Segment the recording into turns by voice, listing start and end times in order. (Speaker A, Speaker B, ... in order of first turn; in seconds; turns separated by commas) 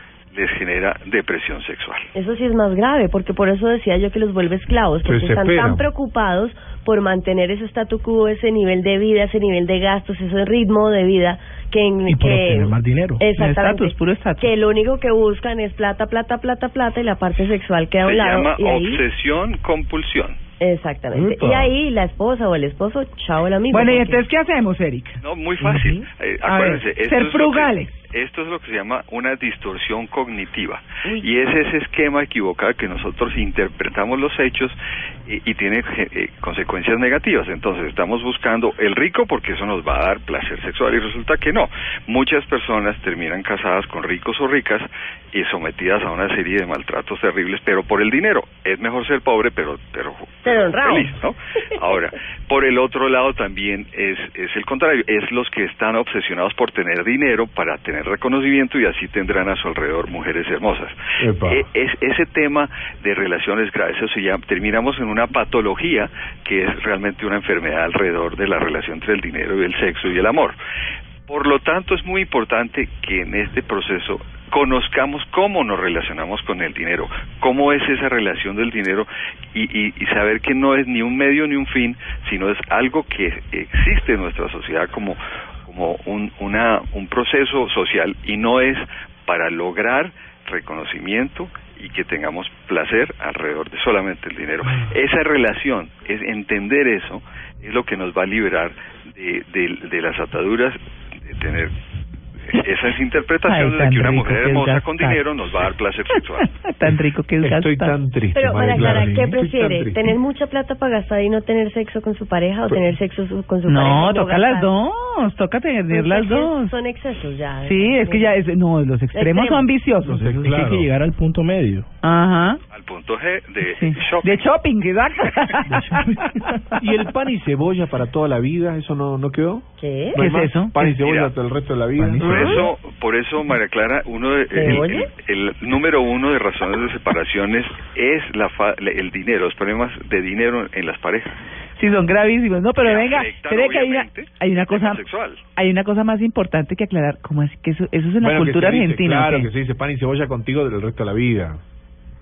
Speaker A: 0.3-2.1, Speaker B: 2.1-19.0, Speaker C: 5.0-5.8, Speaker D: 12.1-13.3, Speaker E: 13.3-14.5, Speaker A: 18.0-20.4, Speaker B: 20.6-24.2, Speaker C: 21.1-21.7, Speaker E: 23.7-28.0, Speaker A: 25.2-70.6, Speaker B: 50.4-51.2, Speaker C: 61.2-61.6, Speaker A: 71.3-101.7, Speaker A: 102.5-106.5, Speaker E: 103.5-105.2, Speaker E: 106.4-108.0, Speaker C: 107.4-110.0, Speaker B: 108.3-114.7, Speaker E: 113.7-116.7, Speaker B: 115.9-118.3, Speaker E: 117.6-120.4, Speaker B: 119.1-119.7, Speaker C: 120.0-120.9, Speaker D: 120.2-121.9, Speaker E: 122.0-122.6, Speaker A: 122.7-124.5, Speaker E: 123.7-126.4, Speaker D: 125.7-126.6, Speaker C: 126.8-132.7, Speaker B: 129.8-130.2, Speaker E: 130.2-130.9, Speaker A: 130.9-131.3, Speaker D: 132.0-132.6, Speaker A: 132.2-141.4, Speaker B: 132.2-132.7, Speaker B: 134.5-135.1, Speaker E: 141.8-145.0, Speaker A: 142.8-145.4, Speaker E: 145.6-149.5, Speaker C: 148.2-151.6